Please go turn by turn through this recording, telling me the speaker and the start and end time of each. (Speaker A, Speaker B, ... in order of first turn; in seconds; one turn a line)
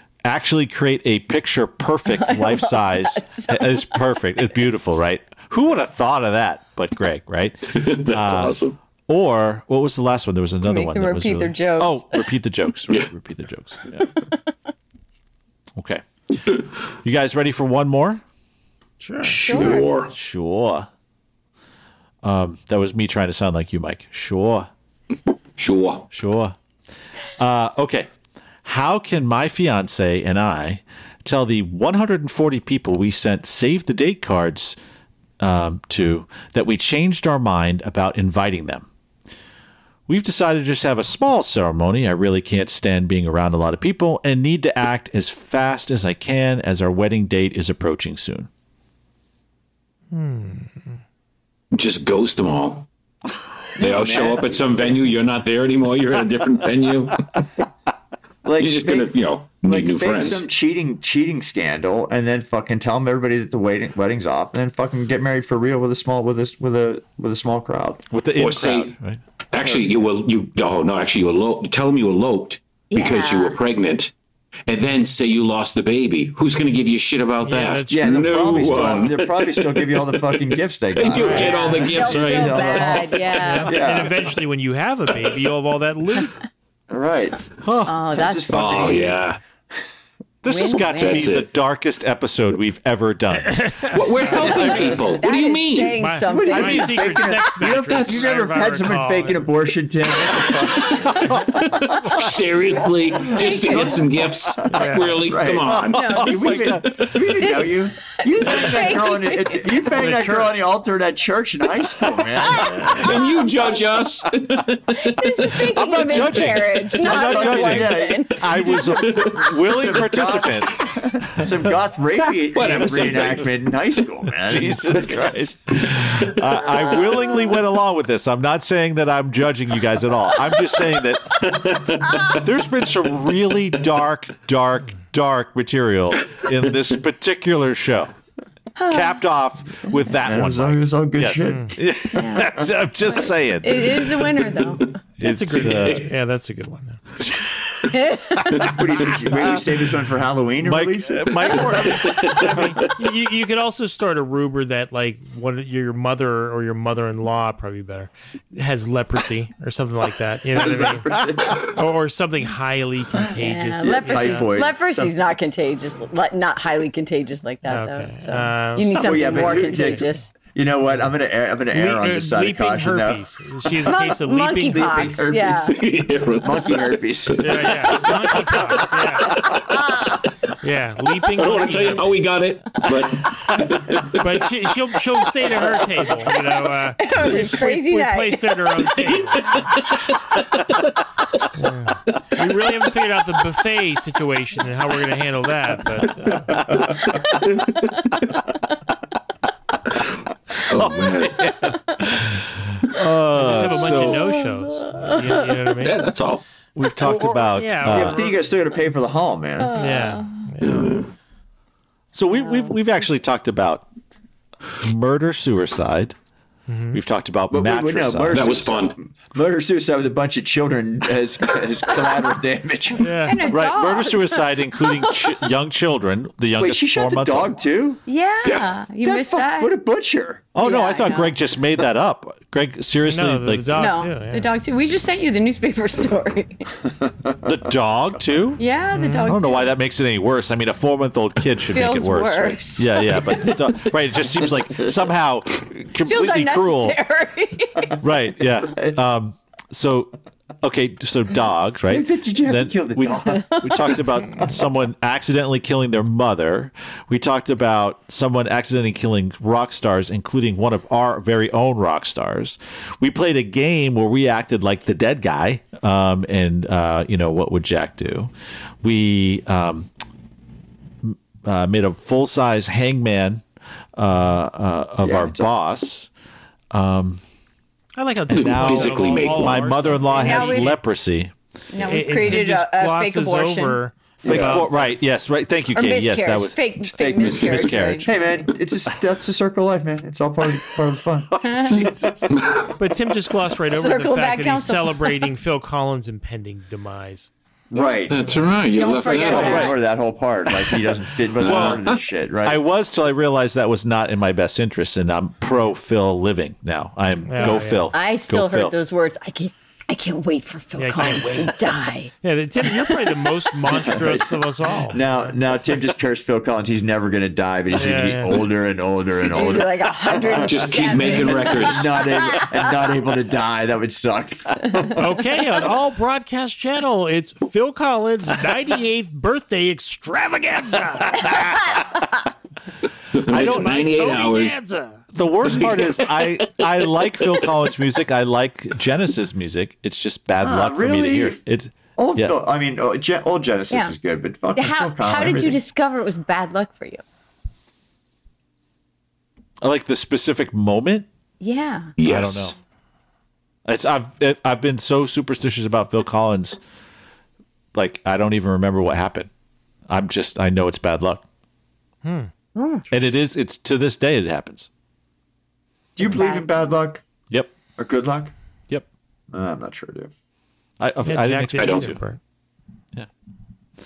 Speaker A: 0.2-14.1
Speaker B: 2.1-4.1
Speaker C: 7.7-8.8
Speaker B: 10.6-12.2
Speaker A: 15.8-16.0
Speaker A: 17.0-18.2
Speaker D: 19.0-19.4
Speaker C: 19.2-20.1
Speaker B: 19.4-19.9
Speaker A: 20.1-20.9
Speaker A: 22.2-24.7
Speaker C: 25.6-26.1
Speaker A: 26.1-26.6
Speaker A: 27.4-28.1
Speaker A: 28.6-34.8
Speaker A: 35.4-38.9
Speaker A: 40.1-48.5
Speaker D: 50.1-50.9
Speaker C: 51.7-52.9
Speaker C: 53.8-57.3
Speaker E: 53.8-55.0
Speaker E: 58.4-68.0
Speaker C: 58.6-60.5
Speaker A: 68.1-69.2
Speaker C: 68.4-68.9
Speaker C: 69.5-74.1
Speaker B: 72.9-73.6
Speaker C: 74.7-83.4
Speaker D: 77.4-78.4
Speaker E: 77.9-84.2
Speaker D: 81.1-81.6
Speaker B: 81.2-83.9
Speaker D: 83.4-86.3
Speaker E: 86.9-87.4
Speaker A: 87.6-88.0
Speaker B: 87.8-89.1
Speaker E: 88.2-89.2
Speaker C: 88.5-89.4
Speaker A: 90.4-93.7
Speaker B: 90.5-91.3
Speaker C: 90.8-91.5
Speaker D: 93.4-94.0
Speaker C: 93.9-96.0
Speaker B: 94.2-97.2
Speaker A: 94.3-95.0
Speaker D: 96.0-99.4
Speaker E: 96.2-101.4
Speaker C: 97.9-98.3
Speaker C: 101.6-106.3
Speaker B: 103.1-104.1
Speaker D: 104.7-105.2
Speaker E: 104.8-113.0
Speaker A: 105.8-107.4
Speaker B: 105.9-109.9
Speaker D: 110.0-110.5
Speaker B: 112.5-113.8
Speaker D: 112.6-113.0
Speaker C: 112.9-115.7
Speaker B: 114.9-118.9
Speaker A: 115.6-120.8
Speaker E: 117.0-124.9
Speaker C: 119.0-119.6
Speaker C: 122.5-123.5
Speaker A: 124.4-131.4
Speaker B: 126.6-127.5
Speaker C: 131.4-132.4
Speaker A: 132.3-138.1
Speaker B: 138.8-139.2
Speaker A: 138.8-144.3
Speaker E: 140.2-141.8
Speaker D: 141.5-141.7
Speaker B: 142.1-145.0
Speaker A: 145.2-146.1
Speaker D: 145.2-147.0
Speaker A: 147.3-147.6
Speaker B: 147.9-148.7
Speaker E: 148.6-151.7
Speaker A: 150.6-152.2
Speaker D: 151.4-164.5
Speaker C: 151.9-152.4
Speaker E: 160.5-161.8
Speaker B: 163.3-170.3
Speaker E: 163.8-165.2
Speaker D: 167.7-170.1
Speaker E: 168.9-173.2
Speaker D: 171.7-175.2
Speaker B: 173.8-175.8
Speaker E: 174.7-175.8
Speaker C: 175.7-179.7
Speaker E: 176.4-177.6
Speaker D: 177.4-179.4
Speaker B: 179.7-180.1
Speaker D: 180.6-182.3
Speaker C: 181.3-184.2
Speaker D: 184.1-189.6
Speaker B: 187.0-188.6
Speaker C: 189.4-190.7
Speaker D: 191.5-196.6
Speaker C: 196.8-198.0
Speaker C: 200.6-201.5
Speaker A: 200.7-204.4
Speaker D: 203.3-206.1
Speaker B: 204.9-205.2
Speaker C: 205.8-206.4
Speaker A: 206.8-208.2
Speaker D: 206.9-208.4
Speaker E: 207.8-209.9
Speaker B: 209.6-210.3
Speaker D: 209.7-210.9
Speaker C: 210.6-211.1
Speaker A: 212.1-213.8
Speaker B: 212.4-212.7
Speaker A: 214.8-216.2
Speaker D: 216.7-217.0
Speaker A: 216.9-218.5
Speaker E: 217.5-223.1
Speaker C: 218.3-218.9
Speaker D: 223.0-223.4
Speaker B: 223.1-225.3
Speaker A: 223.5-227.6
Speaker E: 226.6-228.0
Speaker B: 228.1-229.7
Speaker C: 228.4-228.7
Speaker E: 229.0-230.5
Speaker A: 230.5-234.0
Speaker B: 230.6-231.3
Speaker D: 233.0-234.5
Speaker B: 233.7-236.7
Speaker A: 237.4-238.6
Speaker B: 238.6-239.7
Speaker D: 238.9-239.3
Speaker A: 239.2-247.0
Speaker B: 241.7-243.6
Speaker B: 246.0-248.0
Speaker A: 248.0-268.3
Speaker E: 248.7-249.0
Speaker E: 251.9-253.6
Speaker B: 253.3-253.9
Speaker A: 268.8-269.9
Speaker A: 271.0-273.4
Speaker A: 273.9-276.1
Speaker E: 275.0-275.5
Speaker A: 276.7-277.2
Speaker D: 278.0-280.8
Speaker A: 278.3-281.3
Speaker C: 278.3-279.6
Speaker B: 280.1-280.8
Speaker B: 281.7-283.8
Speaker D: 281.8-284.8
Speaker E: 284.2-284.8
Speaker A: 284.2-288.1
Speaker B: 285.7-288.5
Speaker E: 287.0-291.5
Speaker C: 287.2-287.6
Speaker B: 291.4-291.9
Speaker A: 291.7-292.2
Speaker C: 291.7-292.8
Speaker D: 292.8-297.3
Speaker B: 293.6-295.3
Speaker E: 297.7-302.6
Speaker C: 298.1-299.7
Speaker B: 298.7-299.8
Speaker A: 299.2-299.8
Speaker C: 301.4-302.0
Speaker A: 301.4-301.8
Speaker A: 302.4-308.7
Speaker D: 307.3-307.9
Speaker B: 307.4-312.1
Speaker D: 310.8-311.5
Speaker D: 312.2-315.3
Speaker E: 313.7-314.3
Speaker E: 314.9-325.0
Speaker D: 317.7-318.4
Speaker B: 319.2-322.8
Speaker C: 320.4-321.9
Speaker D: 324.9-331.4
Speaker A: 331.2-331.7
Speaker C: 333.1-334.6
Speaker A: 333.3-333.9
Speaker D: 333.3-335.0
Speaker A: 335.1-342.3
Speaker E: 340.4-341.4
Speaker E: 341.9-345.6
Speaker B: 343.7-343.9
Speaker B: 344.5-347.0
Speaker A: 349.6-351.1
Speaker B: 351.4-351.9
Speaker C: 352.0-352.6
Speaker A: 352.0-352.6
Speaker A: 353.6-356.6
Speaker A: 357.7-359.3
Speaker A: 359.9-361.2
Speaker D: 362.0-362.3
Speaker B: 362.6-362.9
Speaker A: 362.9-364.7
Speaker E: 365.9-367.0
Speaker B: 366.0-366.6
Speaker A: 367.3-367.5
Speaker E: 367.8-368.3
Speaker E: 369.3-370.1
Speaker A: 370.8-372.0
Speaker D: 371.0-372.2
Speaker C: 371.6-371.9